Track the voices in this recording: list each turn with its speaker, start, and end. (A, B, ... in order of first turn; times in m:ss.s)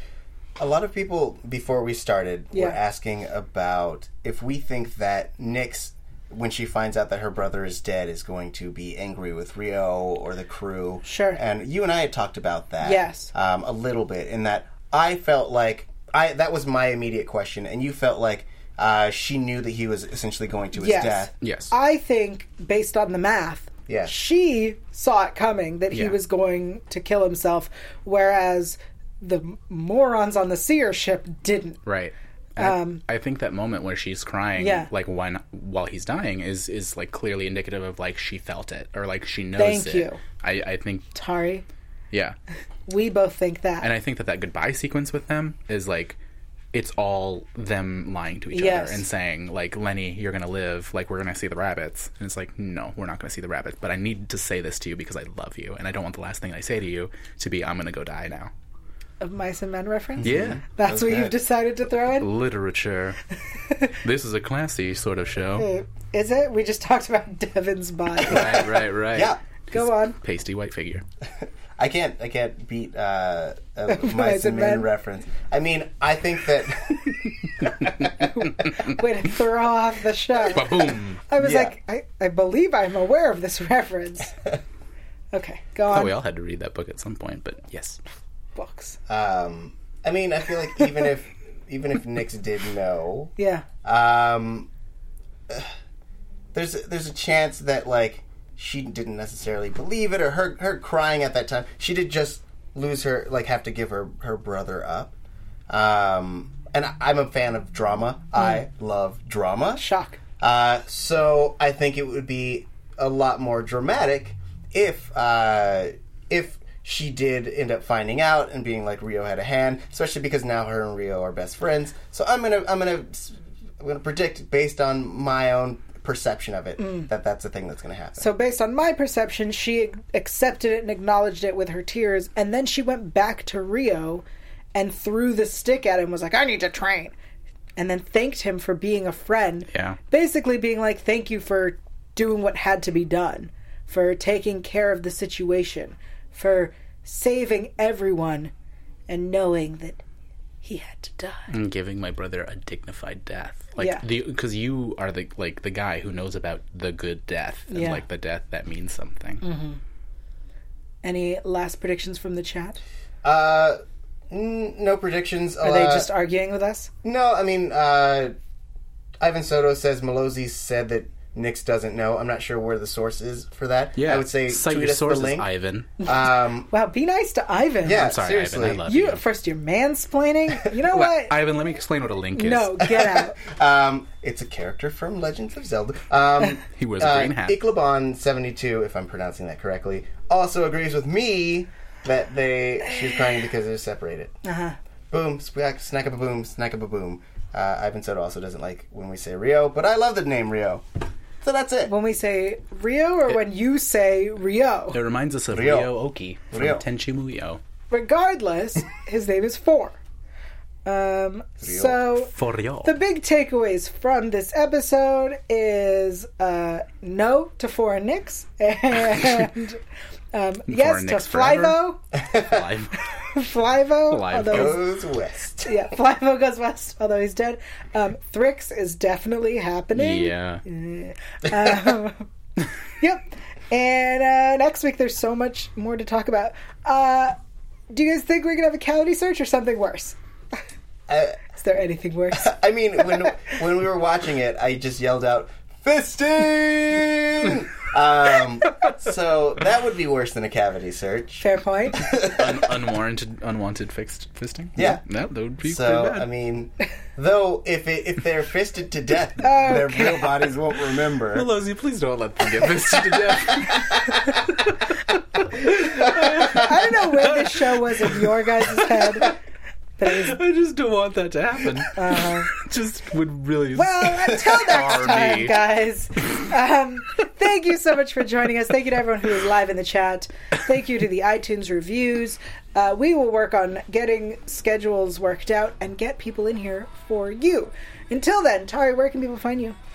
0:00.6-0:21.3 A
0:11.0-0:11.4 B
0:12.8-0:13.3 B
0:20.8-0:31.8 B
0:21.4-0:21.7 C
0:23.9-0:24.1 A
0:25.9-0:26.2 C
0:31.8-0:41.1 C
0:32.6-0:33.0 B
0:34.6-0:34.9 B
0:39.6-0:40.2 B
0:41.1-0:41.6 B
0:42.1-0:42.4 C
0:42.9-0:43.9 B
0:43.8-0:46.2 C
0:46.7-0:58.5 C
0:48.5-0:49.0 B
0:59.2-1:02.3 B
1:00.2-1:01.3 A
1:00.2-1:00.6 C
1:02.2-1:03.2 C
1:03.9-1:05.7 C
1:05.6-1:08.7 B
1:08.2-1:11.0 C
1:08.3-1:08.5 A
1:09.1-1:09.4 A
1:09.7-1:10.2 B
1:11.8-1:17.9 A
1:13.9-1:14.9 B
1:17.6-1:19.0 C
1:18.2-1:24.4 B
1:20.5-1:21.2 C
1:21.4-1:21.7 A
1:25.3-1:26.1 B
1:25.9-1:28.0 C
1:28.6-1:29.0 B
1:29.1-1:33.3 A
1:33.4-1:33.6 B
1:33.8-1:34.7 A
1:36.5-1:45.2 A
1:45.7-1:49.8 A
1:49.8-1:50.2 B
1:50.4-2:08.3 A
2:06.8-2:07.0 B
2:08.2-2:17.1 B
2:17.8-2:28.5 B
2:19.7-2:20.0 C
2:29.1-2:30.0 B
2:30.6-2:31.5 B
2:31.5-2:39.4 C
2:33.8-2:34.0 B
2:37.7-2:38.0 B
2:39.4-2:39.8 B
2:41.0-2:42.8 B
2:43.2-2:46.1 A
2:45.6-2:46.9 B
2:47.0-2:48.3 A
2:49.2-2:55.5 A
2:54.0-2:55.9 C
2:56.0-2:58.1 B
2:56.0-2:56.7 A
2:57.8-2:58.8 A
2:57.9-2:59.2 C
2:58.8-3:01.3 B
3:00.9-3:02.8 C
3:02.4-3:03.4 B
3:02.8-3:14.4 A
3:06.7-3:07.6 C
3:14.4-3:14.8 B
3:15.1-3:20.8 A
3:21.4-3:21.9 A
3:21.8-3:25.0 B
3:24.9-3:27.6 C
3:25.5-3:25.9 A
3:26.5-3:26.8 A
3:27.9-3:30.0 B
3:30.8-3:32.3 B
3:31.6-3:32.0 A
3:32.2-3:32.9 C
3:32.8-3:39.8 B
3:40.3-3:42.0 B
3:40.7-3:43.0 C
3:42.2-3:42.6 A
3:43.1-3:44.8 B
3:44.1-3:44.8 C
3:44.5-3:45.8 A
3:45.6-3:52.3 B
3:49.9-3:50.6 C
3:53.0-3:57.4 B
3:57.9-4:00.2 B
4:01.1-4:01.4 A
4:01.6-4:02.5 B
4:02.4-4:12.7 A
4:11.4-4:12.1 B
4:12.1-4:16.2 C
4:14.8-4:15.0 A
4:15.6-4:21.5 A
4:19.4-4:20.3 B
4:21.3-4:29.3 C
4:26.1-4:29.4 B
4:26.2-4:26.6 A
4:30.0-4:30.4 B
4:30.0-4:35.6 C
4:31.9-4:32.5 B
4:33.7-4:49.8 B